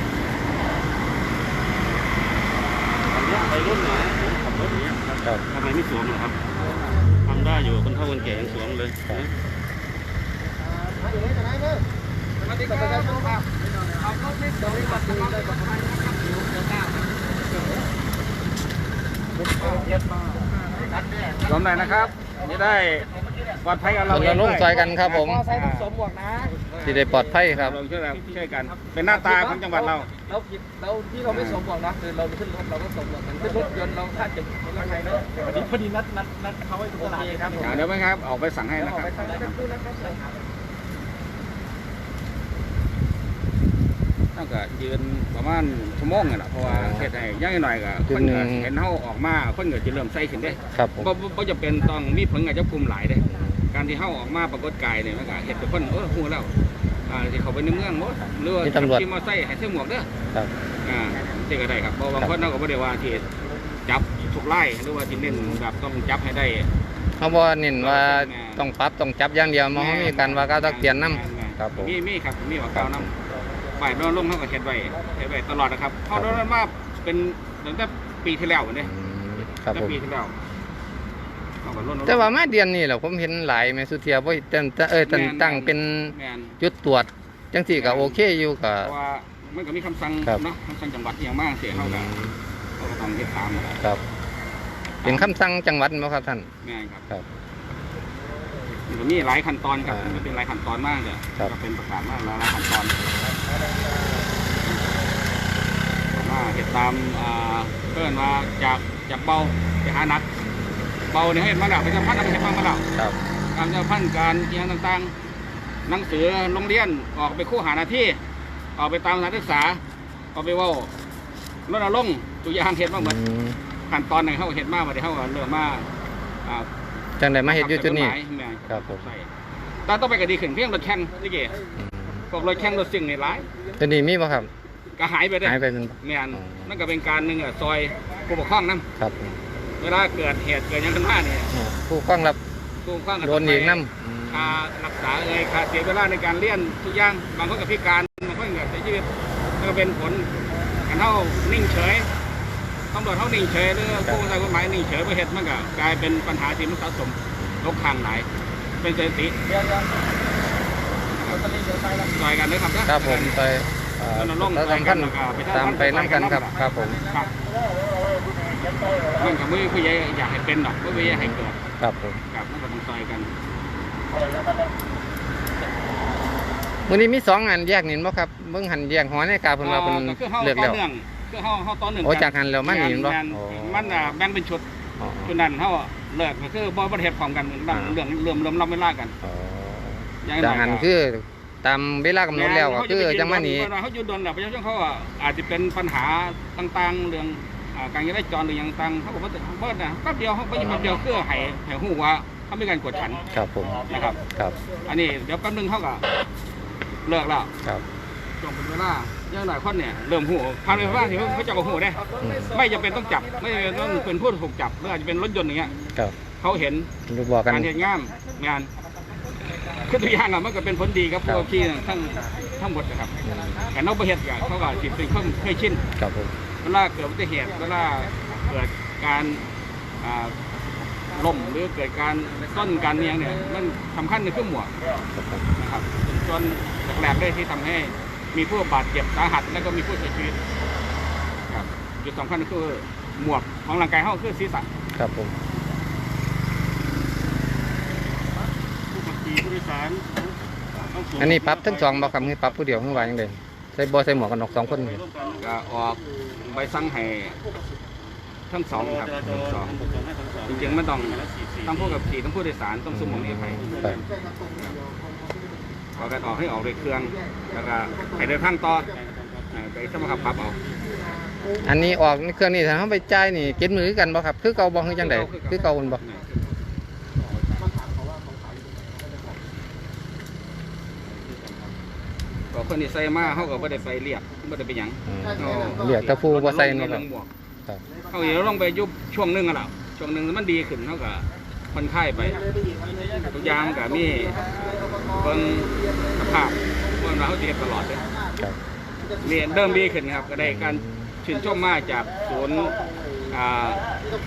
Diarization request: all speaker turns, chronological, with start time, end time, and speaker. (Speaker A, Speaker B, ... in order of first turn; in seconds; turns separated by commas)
Speaker A: 3.1-6.4, Speaker B: 6.6-7.0, Speaker C: 6.6-7.0, Speaker A: 7.2-9.3, Speaker C: 12.4-13.4, Speaker B: 12.4-13.4, Speaker B: 13.9-17.9, Speaker B: 19.4-21.0, Speaker C: 21.4-23.1, Speaker C: 23.6-25.9, Speaker D: 24.1-25.4, Speaker B: 24.7-37.9, Speaker D: 26.8-27.8, Speaker C: 27.4-30.1, Speaker C: 31.3-31.6, Speaker C: 34.8-35.2, Speaker C: 37.0-39.6, Speaker B: 38.8-40.4, Speaker C: 44.3-56.5, Speaker D: 46.6-47.1, Speaker D: 48.1-48.7, Speaker D: 50.7-51.1, Speaker D: 53.2-53.6, Speaker C: 57.1-60.1, Speaker D: 58.6-59.0, Speaker C: 60.8-63.2, Speaker D: 62.2-62.5, Speaker C: 63.9-66.7, Speaker D: 65.0-65.6, Speaker D: 67.2-71.9, Speaker C: 67.8-68.7, Speaker C: 69.7-73.1, Speaker D: 72.7-73.1, Speaker B: 73.5-74.0, Speaker C: 73.8-78.9, Speaker D: 76.1-76.4, Speaker D: 78.8-80.0, Speaker C: 79.5-80.3, Speaker C: 81.6-82.4, Speaker D: 82.0-88.9, Speaker C: 85.0-86.6, Speaker C: 87.7-88.2, Speaker C: 88.8-92.1, Speaker D: 91.7-92.4, Speaker C: 92.8-93.8, Speaker C: 95.0-95.3, Speaker D: 95.0-96.5, Speaker C: 96.6-97.0, Speaker B: 98.5-98.8, Speaker C: 98.9-102.9, Speaker D: 99.8-100.2, Speaker B: 103.2-104.2, Speaker C: 106.1-110.3, Speaker C: 111.1-112.8, Speaker C: 113.5-115.1, Speaker C: 115.9-118.2, Speaker C: 118.8-119.8, Speaker C: 120.3-120.9, Speaker C: 121.7-123.2, Speaker D: 123.0-123.6, Speaker C: 123.9-125.9, Speaker D: 127.2-128.2, Speaker C: 127.4-129.3, Speaker D: 128.7-129.0, Speaker C: 129.8-131.6, Speaker D: 131.8-132.2, Speaker C: 132.3-133.5, Speaker D: 133.8-134.5, Speaker C: 134.9-138.8, Speaker D: 135.4-136.7, Speaker D: 139.0-139.4, Speaker C: 139.8-141.5, Speaker D: 141.5-142.4, Speaker C: 142.8-150.3, Speaker D: 143.2-144.6, Speaker C: 150.8-152.1, Speaker C: 152.9-158.3, Speaker D: 153.9-154.2, Speaker C: 158.8-159.4, Speaker B: 159.5-160.1, Speaker B: 161.3-162.1, Speaker C: 162.1-163.3, Speaker D: 162.9-167.0, Speaker C: 164.1-167.3, Speaker B: 166.6-167.3, Speaker C: 169.1-171.6, Speaker D: 170.9-172.2, Speaker C: 172.3-173.3, Speaker D: 176.8-180.8, Speaker C: 179.6-184.6, Speaker D: 182.0-184.2, Speaker D: 185.0-185.3, Speaker C: 185.2-189.1, Speaker D: 187.7-187.9, Speaker D: 189.2-193.7, Speaker C: 190.2-190.9, Speaker C: 192.3-203.2, Speaker D: 200.6-201.0, Speaker D: 203.3-204.6, Speaker C: 203.8-204.2, Speaker C: 204.8-206.0, Speaker C: 207.0-207.5, Speaker C: 208.4-215.7, Speaker D: 210.7-211.1, Speaker B: 210.9-214.1, Speaker D: 212.2-212.5, Speaker C: 216.4-216.9, Speaker D: 217.1-217.7, Speaker C: 217.5-218.7, Speaker B: 218.1-219.9, Speaker C: 219.8-223.1, Speaker B: 221.5-223.8, Speaker D: 223.2-223.7, Speaker C: 223.7-225.8, Speaker B: 224.4-225.8, Speaker D: 226.0-226.3, Speaker C: 226.6-229.4, Speaker B: 227.4-228.5, Speaker C: 230.0-230.3, Speaker B: 231.1-231.5, Speaker C: 231.1-234.7, Speaker B: 232.3-233.5, Speaker D: 235.1-235.4, Speaker C: 235.6-240.4, Speaker C: 241.5-244.7, Speaker D: 245.0-245.3, Speaker A: 248.9-253.2, Speaker D: 251.2-255.0, Speaker A: 254.1-255.5, Speaker C: 255.4-257.4, Speaker C: 258.5-259.7, Speaker A: 258.7-262.1, Speaker C: 260.5-263.7, Speaker D: 262.9-264.0, Speaker A: 263.1-264.1, Speaker C: 265.9-268.9, Speaker A: 268.7-271.0, Speaker C: 269.5-270.6, Speaker D: 271.6-276.0, Speaker C: 274.9-276.4, Speaker C: 282.5-287.3, Speaker D: 285.1-287.0, Speaker C: 288.1-292.4, Speaker B: 292.8-294.8, Speaker C: 293.2-298.0, Speaker C: 299.2-303.8, Speaker D: 300.4-301.1